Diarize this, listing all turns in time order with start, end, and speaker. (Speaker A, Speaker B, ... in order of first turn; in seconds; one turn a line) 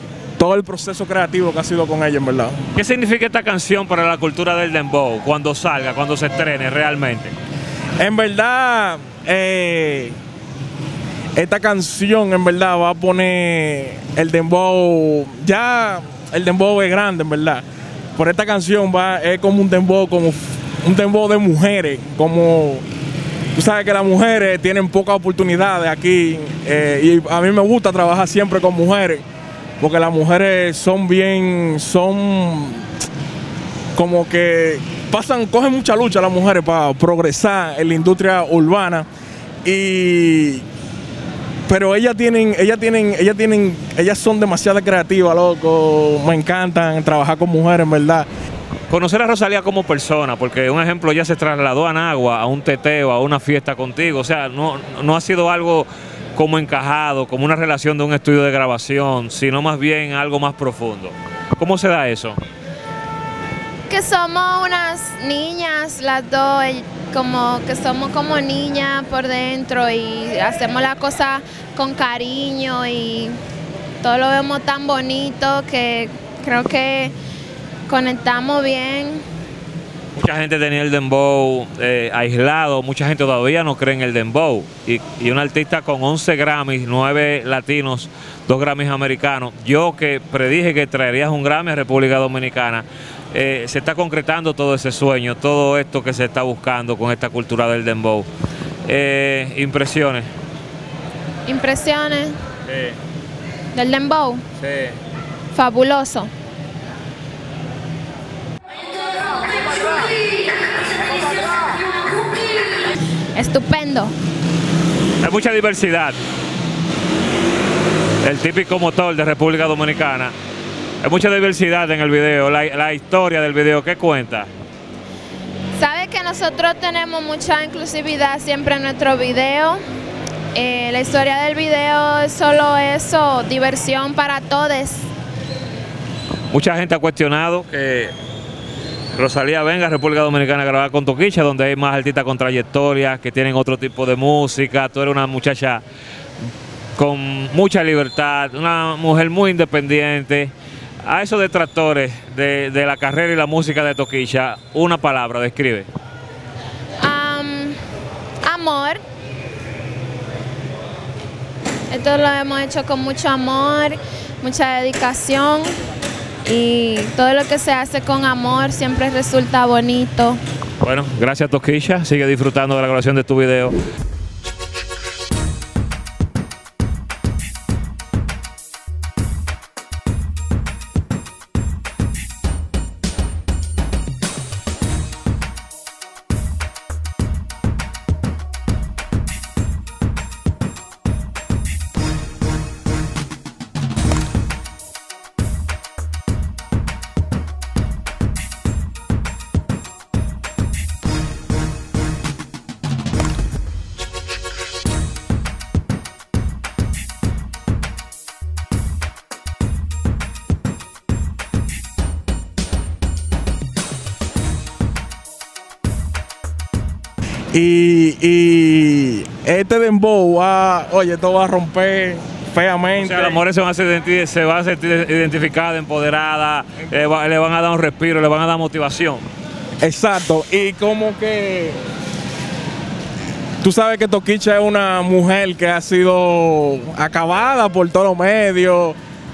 Speaker A: 0.4-2.6
Speaker B: 2.7-7.3
Speaker A: 8.0-10.2
Speaker A: 11.3-17.6
Speaker A: 18.1-22.8
Speaker A: 23.5-29.2
Speaker A: 29.8-32.9
Speaker A: 33.9-39.1
Speaker A: 39.6-40.6
Speaker A: 41.7-48.3
Speaker B: 48.9-62.4
Speaker C: 63.9-73.3
Speaker C: 74.0-77.1
Speaker C: 77.9-79.2
Speaker B: 80.1-98.3
Speaker B: 98.8-100.3
Speaker C: 101.5-102.3
Speaker B: 102.7-103.0
Speaker C: 103.7-104.4
Speaker B: 104.6-105.0
Speaker C: 105.5-106.3
Speaker C: 113.3-114.1
Speaker B: 115.2-116.2
Speaker B: 118.2-120.3
Speaker B: 121.0-124.5
Speaker C: 125.8-129.8
Speaker C: 130.5-135.1
Speaker B: 136.5-138.1
Speaker B: 139.1-145.8
Speaker B: 147.0-150.5
Speaker B: 151.0-155.9
Speaker C: 157.0-157.8
Speaker C: 158.4-159.0
Speaker C: 161.9-165.7
Speaker C: 166.4-170.4
Speaker B: 170.8-173.8
Speaker A: 217.5-223.4
Speaker B: 222.9-229.2
Speaker A: 229.8-231.8
Speaker A: 233.6-239.0